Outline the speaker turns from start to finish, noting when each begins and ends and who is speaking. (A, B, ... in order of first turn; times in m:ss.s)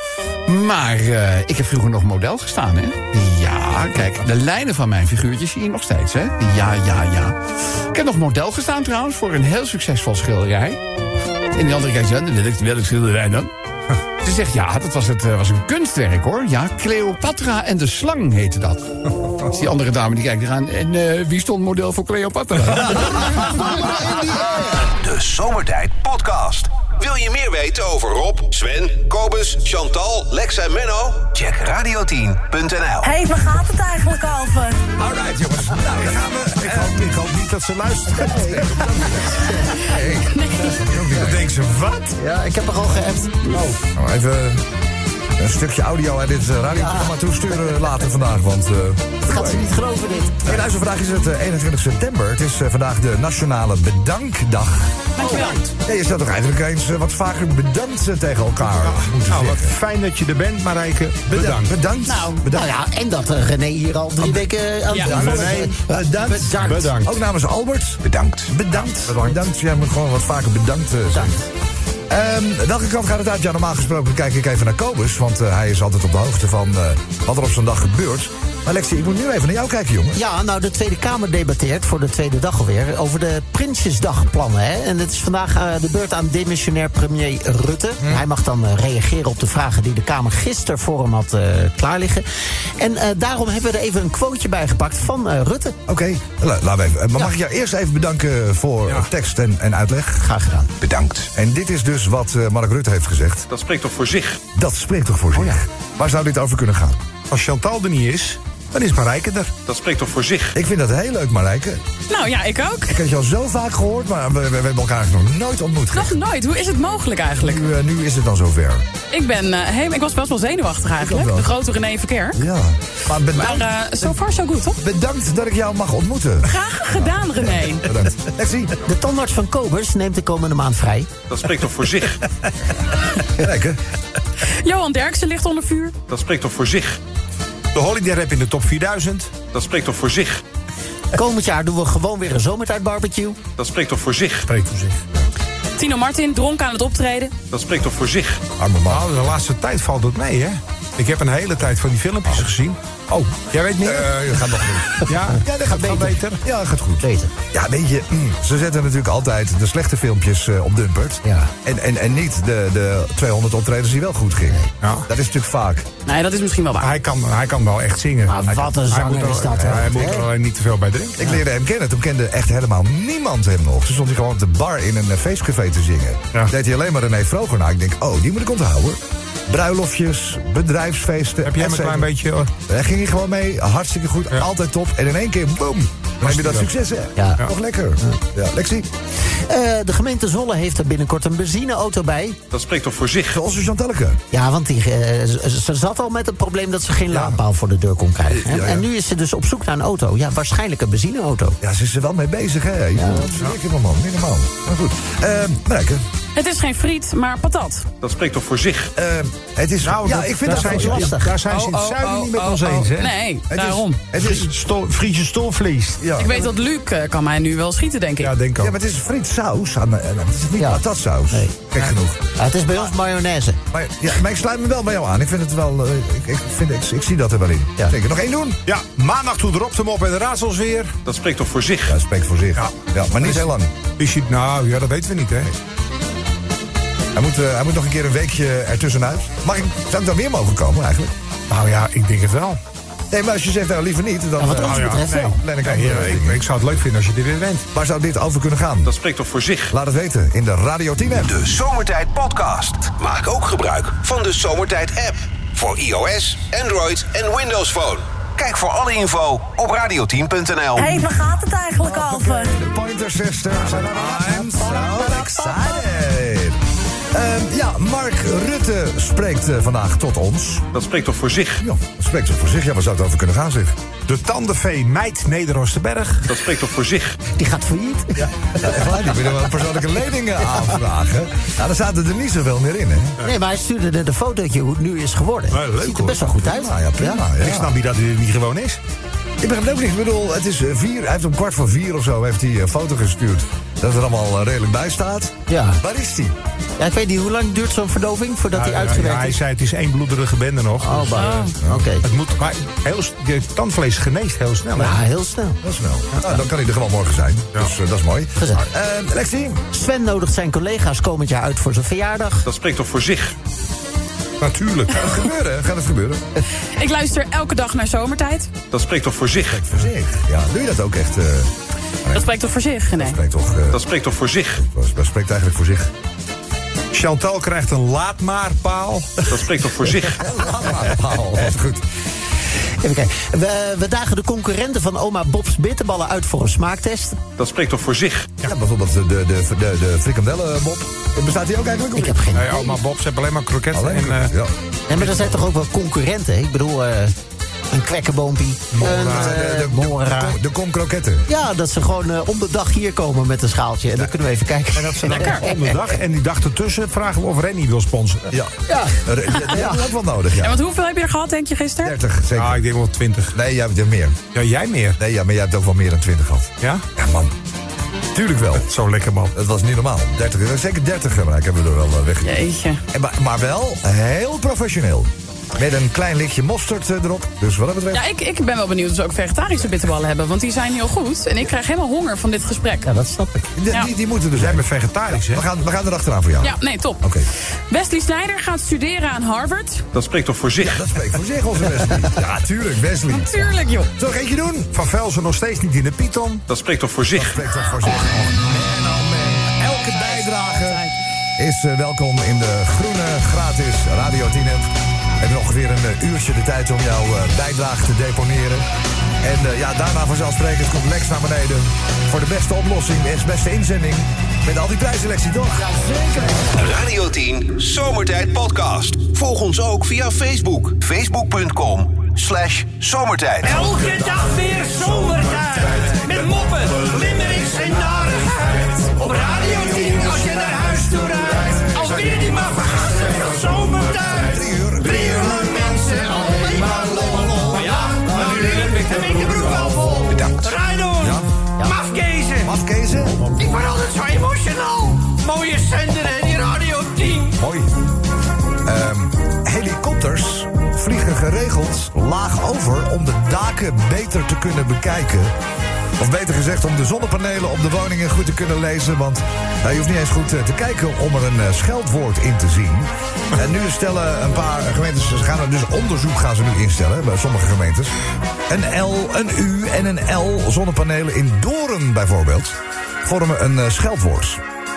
0:00.5-0:07.4 A
0:07.9-0:10.8 A
0:11.5-0:13.5 A
0:14.2-0:18.9 A
0:19.5-0:23.7 A
0:23.9-0:24.6 B
0:24.9-0:33.1 C
0:33.0-0:34.8 D
0:35.0-0:37.2 E
0:36.6-0:38.6 F
0:38.3-0:39.9 B
0:38.3-0:41.5 E
0:40.3-0:40.8 G
0:41.1-0:42.2 F
0:42.2-0:43.6 B
0:43.9-0:44.6 E
0:45.4-0:49.7 E
0:46.7-0:47.1 B
0:49.2-0:50.5 B
0:50.4-0:55.1 E
0:55.2-0:55.6 G
0:55.2-0:55.6 F
0:55.8-0:59.7 E
0:58.8-1:01.8 F
1:01.3-1:02.7 E
1:02.1-1:02.4 G
1:02.5-1:07.0 B
1:04.2-1:04.5 E
1:05.0-1:11.5 E
1:05.0-1:05.7 F
1:06.6-1:07.2 F
1:12.1-1:20.2 E
1:20.1-1:32.2 B
1:32.8-1:35.8 B
1:35.9-1:40.3 E
1:40.2-1:40.7 B
1:40.8-1:43.5 E
1:43.5-1:44.5 H
1:44.6-1:47.0 E
1:47.3-1:49.5 F
1:49.6-1:50.6 H
1:50.6-1:51.8 E
1:52.1-1:53.0 G
1:52.9-1:56.2 E
1:55.9-1:57.6 G
1:57.4-1:58.9 E
1:59.1-2:02.4 G
2:01.0-2:01.5 E
2:02.4-2:04.2 E
2:03.3-2:04.8 G
2:04.7-2:08.8 E
2:06.4-2:07.9 G
2:08.8-2:11.1 B
2:11.3-2:12.2 H
2:13.3-2:13.8 E
2:14.6-2:16.0 G
2:16.1-2:17.0 H
2:17.7-2:19.3 F
2:19.5-2:20.4 H
2:21.1-2:23.4 B
2:23.6-2:24.5 H
2:24.5-2:25.0 F
2:25.8-2:27.4 G
2:27.5-2:28.5 H
2:28.6-2:29.3 E
2:28.9-2:34.2 F
2:33.8-2:35.1 E
2:35.0-2:36.4 F
2:35.7-2:36.2 B
2:36.4-2:45.9 E
2:37.0-2:37.3 B
2:41.2-2:41.5 B
2:46.1-2:46.9 G
2:46.8-2:51.2 F
2:48.3-2:50.3 B
2:48.5-2:48.8 E
2:49.6-2:50.2 E
2:51.2-3:02.1 E
3:01.4-3:02.5 F
3:02.7-3:08.9 E
3:06.2-3:06.7 F
3:07.2-3:07.4 B
3:09.5-3:12.4 B
3:12.5-3:13.4 H
3:13.3-3:14.2 E
3:14.3-3:21.6 B
3:17.1-3:17.4 E
3:18.3-3:18.9 E
3:21.6-3:26.0 E
3:23.0-3:23.3 B
3:26.4-3:27.9 G
3:28.0-3:28.9 H
3:29.0-3:31.1 E
3:29.8-3:33.2 F
3:30.4-3:31.4 B
3:31.5-3:34.0 G
3:33.5-3:34.5 E
3:34.1-3:36.1 F
3:36.0-3:36.3 E
3:36.2-3:38.3 G
3:38.2-3:38.7 F
3:38.6-3:42.2 E
3:40.6-3:41.5 B
3:42.4-3:43.6 B
3:43.7-3:48.6 E
3:48.7-3:51.0 F
3:51.0-3:52.0 H
3:51.9-3:53.7 E
3:52.6-3:55.5 F
3:57.1-4:01.1 E
4:01.5-4:02.6 F
4:03.1-4:06.5 E
4:04.4-4:05.4 B
4:04.6-4:07.7 F
4:07.7-4:08.9 E
4:08.8-4:09.8 H
4:09.7-4:11.3 E
4:11.2-4:21.1 C
4:20.8-4:22.6 D
4:21.8-4:26.6 E
4:23.7-4:25.6 B
4:27.1-4:30.7 E
4:30.7-4:31.6 H
4:31.6-4:33.8 E
4:34.1-4:36.3 F
4:36.3-4:37.2 H
4:37.4-4:38.8 B
4:38.6-4:43.2 E
4:43.2-4:47.2 B
4:45.5-4:46.3 F
4:46.4-4:47.7 E
4:47.4-4:48.8 F
4:49.4-4:56.4 E
4:55.5-4:55.8 B
4:56.8-4:59.4 B
4:58.5-5:01.5 F
5:00.8-5:02.0 B
5:01.2-5:01.5 G
5:02.0-5:05.0 F
5:04.8-5:05.6 B
5:05.6-5:09.6 E
5:08.4-5:08.6 B
5:09.7-5:12.5 B
5:12.4-5:13.4 H
5:14.4-5:14.7 F
5:14.6-5:16.4 E
5:16.8-5:18.5 G
5:18.7-5:19.7 H
5:19.5-5:21.5 E
5:22.0-5:22.3 E
5:22.1-5:23.2 G
5:22.9-5:23.8 E
5:23.7-5:24.6 H
5:24.6-5:25.9 E
5:26.9-5:29.3 F
5:29.3-5:30.2 H
5:30.2-5:31.8 E
5:32.8-5:37.2 B
5:37.4-5:38.4 H
5:38.4-5:42.2 E
5:42.0-5:42.8 B
5:42.3-5:44.3 F
5:43.7-5:44.5 E
5:44.9-5:47.1 B
5:47.7-5:50.4 B
5:48.7-5:49.3 F
5:48.8-5:51.3 E
5:51.3-5:55.7 B
5:54.7-5:58.3 F
5:58.3-6:00.6 E
5:58.7-5:59.8 B
6:00.4-6:02.0 G
6:01.8-6:02.6 E
6:02.4-6:03.4 F
6:03.3-6:04.2 E
6:04.3-6:05.0 F
6:05.0-6:07.3 E
6:08.1-6:08.7 E
6:08.6-6:09.3 F
6:09.3-6:18.1 E
6:12.2-6:12.8 G
6:17.9-6:22.9 G
6:22.8-6:23.5 B
6:23.6-6:27.3 E
6:24.3-6:25.4 F
6:26.4-6:27.0 G
6:27.7-6:29.8 G
6:29.9-6:30.8 H
6:30.6-6:34.7 E
6:33.1-6:33.9 G
6:34.7-6:36.4 F
6:36.5-6:37.5 H
6:37.2-6:48.7 E
6:39.8-6:40.9 G
6:49.2-6:55.8 E
6:55.7-6:56.5 B
6:56.5-7:03.7 C
7:03.4-7:22.6 I
7:05.1-7:06.0 F
7:09.5-7:10.3 F
7:11.5-7:14.2 F
7:14.2-7:18.2 E
7:17.6-7:19.4 F
7:21.0-7:21.3 E
7:22.4-7:23.2 E
7:23.3-7:27.4 I
7:27.3-7:27.8 E
7:28.6-7:35.4 E
7:36.0-7:48.0 E
7:48.5-7:54.4 E